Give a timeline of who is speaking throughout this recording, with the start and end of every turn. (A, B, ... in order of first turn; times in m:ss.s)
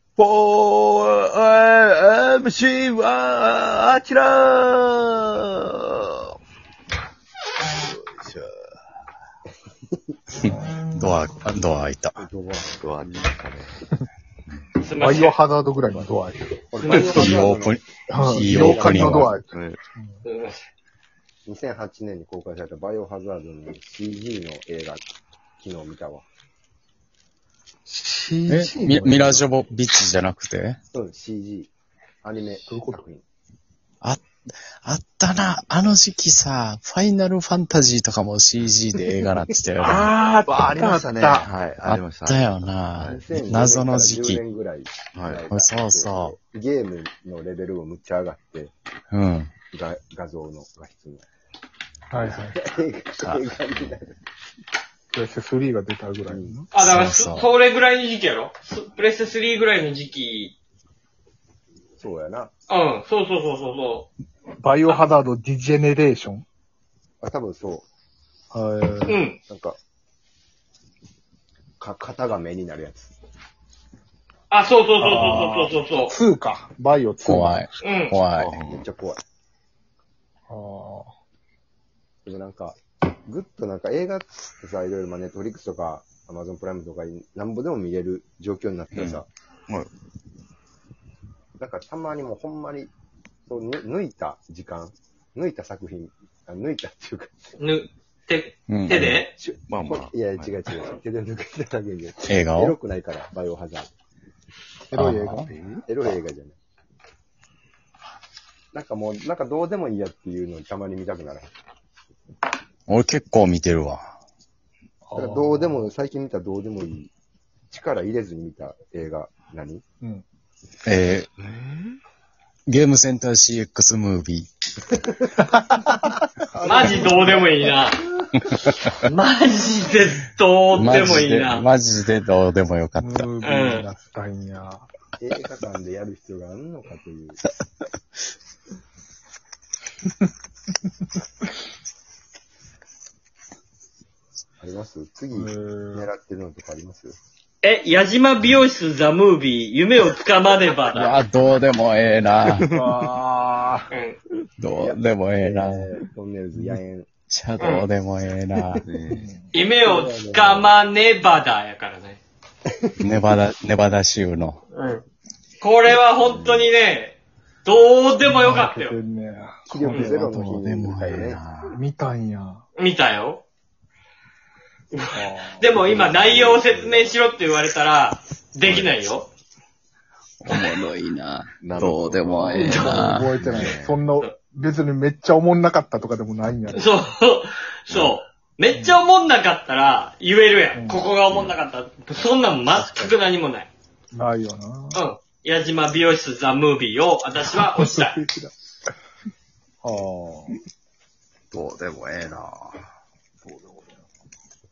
0:00.2-0:06.3 A
0:07.8-0:08.5 A
0:10.4-0:12.2 B
0:10.4-0:11.1 C
0:12.2-0:13.3 D
0:12.8-0:13.7 A
0:14.8-0:15.4 E
0:15.0-0:16.6 C
0:16.7-0:17.8 D
0:16.8-0:17.4 E
0:17.0-0:19.3 B
0:18.1-0:20.2 C
0:18.4-0:19.2 D
0:19.1-0:19.8 A
0:20.2-0:20.6 E
0:21.5-0:25.1 D
0:25.6-0:26.3 D
0:27.9-0:29.4 C
0:28.5-0:30.8 B
0:30.9-0:31.7 D
0:32.2-0:33.2 D
0:32.7-0:33.0 C
0:34.8-0:40.1 B
0:39.8-0:41.5 C
0:39.8-0:43.2 A
0:41.8-0:44.4 B
0:43.1-0:48.7 D
0:45.1-0:45.5 A
0:45.5-0:46.4 B
0:49.1-0:49.5 B
0:49.7-0:51.2 D
0:52.1-0:52.6 C
0:52.2-0:54.2 D
0:55.1-0:56.7 C
0:56.3-0:56.6 D
0:56.7-1:00.5 E
0:56.8-0:57.5 B
1:02.0-1:02.5 D
1:02.7-1:04.1 E
1:04.6-1:06.4 C
1:07.2-1:07.9 D
1:08.5-1:09.2 C
1:09.1-1:09.4 E
1:09.5-1:09.8 D
1:11.8-1:13.1 D
1:14.5-1:16.2 E
1:15.0-1:17.8 C
1:17.2-1:18.6 B
1:17.8-1:18.2 E
1:18.4-1:18.8 A
1:18.6-1:19.2 D
1:20.5-1:21.1 C
1:22.2-1:29.3 D
1:31.6-1:32.9 D
1:33.5-1:37.5 D
1:37.6-1:39.3 E
1:38.7-1:39.2 B
1:39.0-1:43.9 D
1:39.7-1:40.6 A
1:42.3-1:42.8 B
1:44.9-1:45.5 B
1:44.9-1:45.5 C
1:45.0-1:46.6 D
1:45.5-1:45.8 A
1:48.7-1:51.5 D
1:52.9-1:54.1 B
1:55.1-1:55.9 C
1:55.2-1:57.1 D
1:57.7-1:59.8 D
2:00.8-2:01.3 B
2:02.7-2:04.5 B
2:05.5-2:06.0 C
2:06.5-2:07.7 D
2:06.6-2:08.0 E
2:08.4-2:08.9 B
2:08.9-2:11.7 E
2:10.8-2:13.3 B
2:13.0-2:14.9 C
2:13.4-2:13.9 E
2:15.2-2:17.4 D
2:24.6-2:27.2 D
2:25.4-2:26.1 C
2:27.6-2:31.2 E
2:30.9-2:32.7 B
2:32.7-2:33.9 C
2:33.9-2:34.2 E
2:34.6-2:35.9 B
2:34.7-2:37.7 D
2:37.3-2:38.8 B
2:38.9-2:39.3 A
2:39.1-2:39.5 C
2:39.5-2:42.2 E
2:39.6-2:40.7 D
2:43.0-2:44.6 B
2:44.7-2:45.0 E
2:45.6-2:49.0 E
2:46.2-2:46.7 D
2:48.3-2:50.6 C
2:49.7-2:51.4 D
2:50.2-2:51.8 B
2:51.7-2:52.6 C
2:52.8-2:53.4 E
2:54.9-2:59.3 E
2:55.1-2:55.7 C
2:55.7-2:57.1 D
2:58.6-2:59.0 A
3:00.4-3:03.3 B
3:01.6-3:04.1 A
3:02.5-3:07.0 C
3:02.7-3:03.0 E
3:06.7-3:13.7 E
3:07.9-3:08.2 A
3:08.8-3:09.0 C
3:10.8-3:11.1 C
3:11.2-3:11.6 A
3:14.1-3:15.0 C
3:14.9-3:18.2 E
3:17.6-3:18.5 C
3:19.8-3:20.6 C
3:21.5-3:22.8 B
3:23.4-3:24.0 C